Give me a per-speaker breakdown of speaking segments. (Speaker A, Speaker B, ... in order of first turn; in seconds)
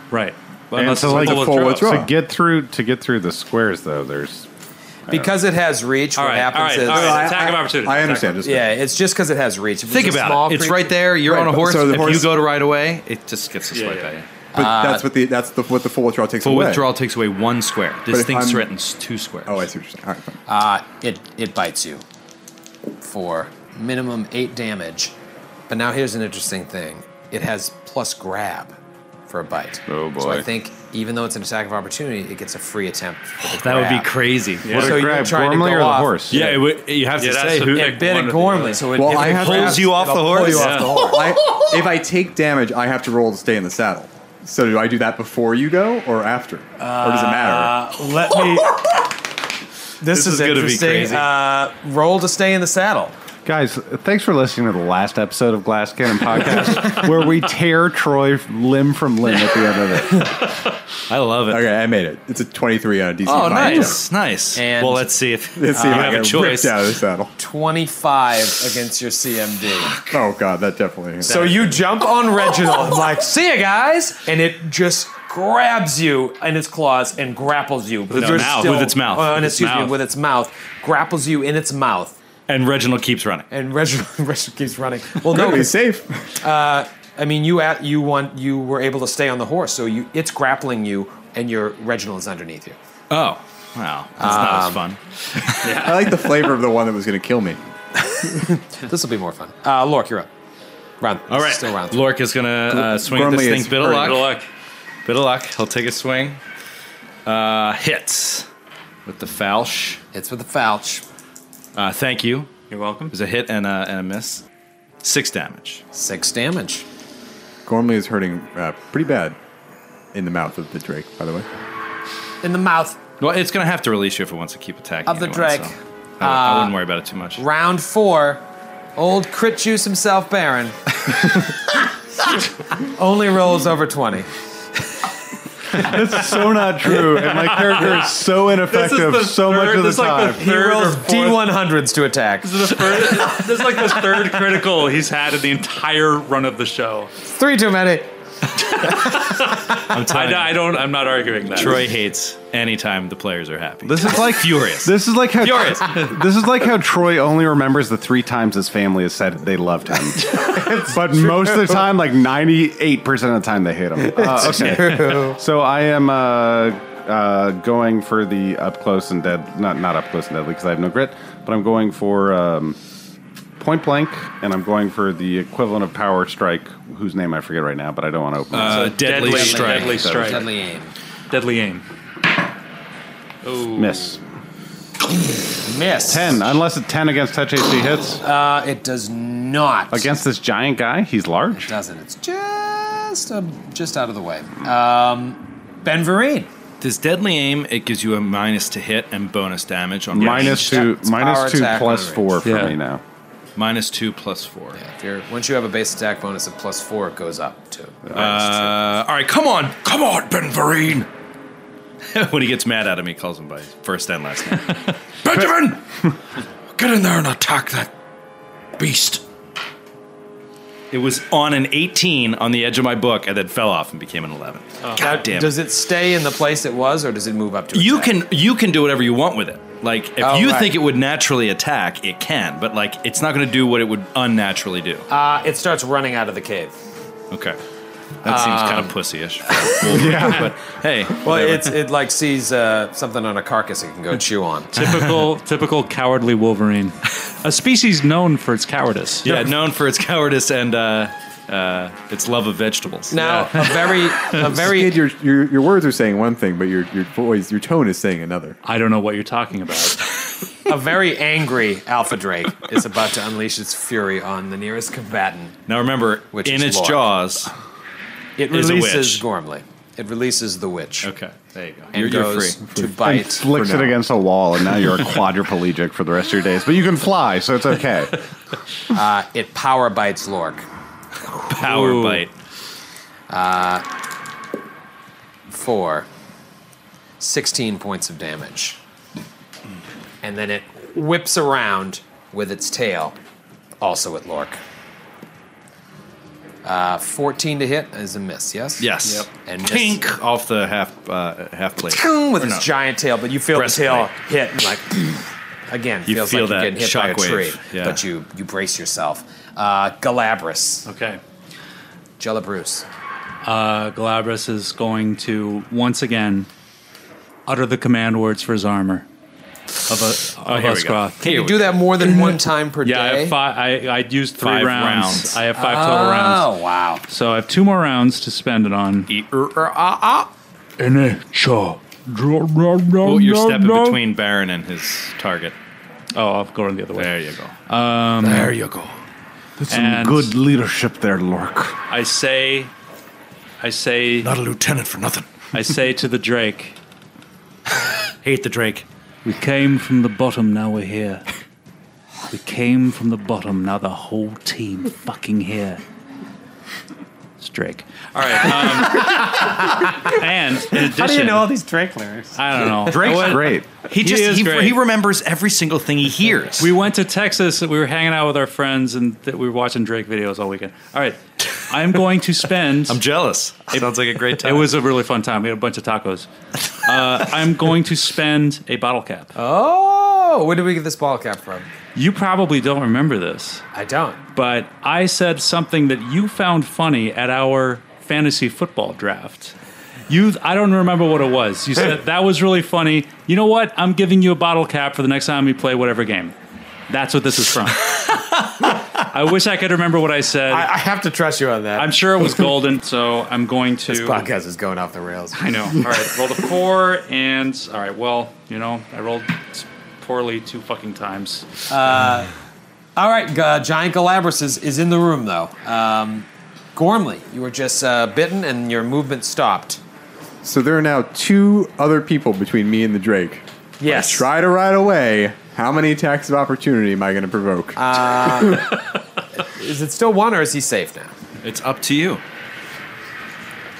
Speaker A: 0.1-2.0, 6.2-8.4, 13.7-14.1, 34.7-35.0, 37.2-39.0, 40.5-41.0, 78.1-79.9, 95.6-96.0, 103.9-104.5, 112.7-113.1, 136.9-141.5, 142.4-147.1, 148.7-151.9, 178.7-180.5, 181.3-181.8, 183.4-184.2, 202.4-202.8, 244.7-249.5, 253.1-254.1, 258.6-260.0, 281.5-282.2, 310.9-311.2, 313.4-316.5, 317.5-319.1, 319.9-321.4, 322.1-326.5, 327.1-329.1, 330.8-334.0, 336.1-337.1, 337.7-338.5, 339.7-340.3, 341.9-342.7, 343.6-344.3, 345.5-346.8, 349.2-351.2, 352.3-355.8, 357.4-361.5, 362.3-364.8, 366.6-373.0, 373.8-376.3, 376.8-379.3, 381.9-383.6, 384.3-389.5, 390.1-396.3, 396.9-400.7, 401.8-404.3, 405.3-411.5
Speaker B: 0.7-4.5, 29.9-30.4, 34.7-36.4, 53.4-60.5, 135.7-140.4, 153.8-172.8, 173.6-179.2, 179.8-180.4, 183.7-184.2, 186.1-188.2, 189.9-191.7, 200.1-203.0, 239.8-240.5, 272.8-278.2, 339.6-341.8, 363.0-363.7
Speaker C: 0.9-2.1, 6.9-8.7, 11.2-12.4, 14.5-16.9, 18.1-18.7, 19.5-20.4, 38.9-39.9, 41.0-47.8, 61.5-64.0, 65.5-67.3, 70.1-71.7, 85.3-86.3, 95.5-97.6, 102.7-104.2, 117.7-119.3, 120.1-121.5, 254.3-258.6, 273.5-273.9, 420.4-428.7
Speaker D: 5.1-7.3, 8.4-10.9, 14.5-15.1, 20.5-22.0, 23.0-25.1, 25.7-28.7, 29.3-34.1, 34.7-36.6, 37.7-41.3, 46.8-49.1, 50.0-53.1, 63.6-63.9, 64.5-65.1, 65.7-66.6, 67.4-70.0, 71.2-82.2, 83.5-85.7, 86.4-92.8, 94.2-94.8, 98.0-100.3, 101.0-102.0, 110.1-111.0, 115.9-116.8, 122.4-123.0, 125.0-126.8, 127.3-128.4, 128.9-131.3, 132.7-134.3, 140.3-143.1, 147.2-148.1, 148.7-149.1, 160.4-161.5, 164.0-165.4, 179.1-180.9, 185.6-186.4, 188.2-190.1, 191.5-196.5, 200.2-202.4, 204.7-208.7, 225.0-228.2, 230.2-230.8, 235.1-236.7, 238.2-238.9, 239.5-239.9, 241.2-244.8, 253.1-255.0, 260.6-265.6, 266.3-267.1, 268.4-271.1, 271.9-273.8, 278.9-280.6, 283.3-283.8, 285.5-286.1, 287.2-288.8, 290.2-293.2, 293.8-294.6, 296.6-300.1, 301.8-310.9, 312.2-312.9, 321.2-323.4, 325.5-327.0, 329.8-330.3, 359.0-360.1, 360.7-362.9, 379.3-381.7, 383.7-384.2, 400.5-401.9, 403.9-405.4, 411.7-412.3, 412.9-419.8, 423.8-424.3, 427.8-428.8, 429.4-431.1
Speaker E: 9.9-14.2, 16.4-19.7, 33.4-35.0, 36.3-38.1, 39.1-41.3, 50.1-51.3, 61.1-61.7, 63.2-66.9, 78.1-79.4, 82.5-83.5, 93.1-95.9, 101.3-104.3, 105.0-106.4, 107.2-108.5, 109.0-110.0, 111.7-112.5, 113.1-114.4, 115.0-115.8, 123.2-127.4, 149.7-150.7, 151.5-156.0, 178.5-180.1, 196.8-200.9, 203.6-204.8, 208.1-211.1, 212.1-215.8, 216.7-217.9, 218.8-219.2, 220.9-225.6, 227.7-235.1, 237.3-237.6, 238.2-241.7, 244.8-245.2, 249.2-253.2, 265.7-267.5, 268.5-269.2, 271.0-272.6, 281.4-282.3, 298.8-302.7, 303.5-304.1, 306.1-308.0, 320.3-321.7, 324.4-325.4, 329.1-329.9, 333.0-335.6, 336.9-337.5, 338.2-338.9, 344.2-345.4, 348.2-348.9, 362.9-366.7, 372.9-374.7, 431.4-432.2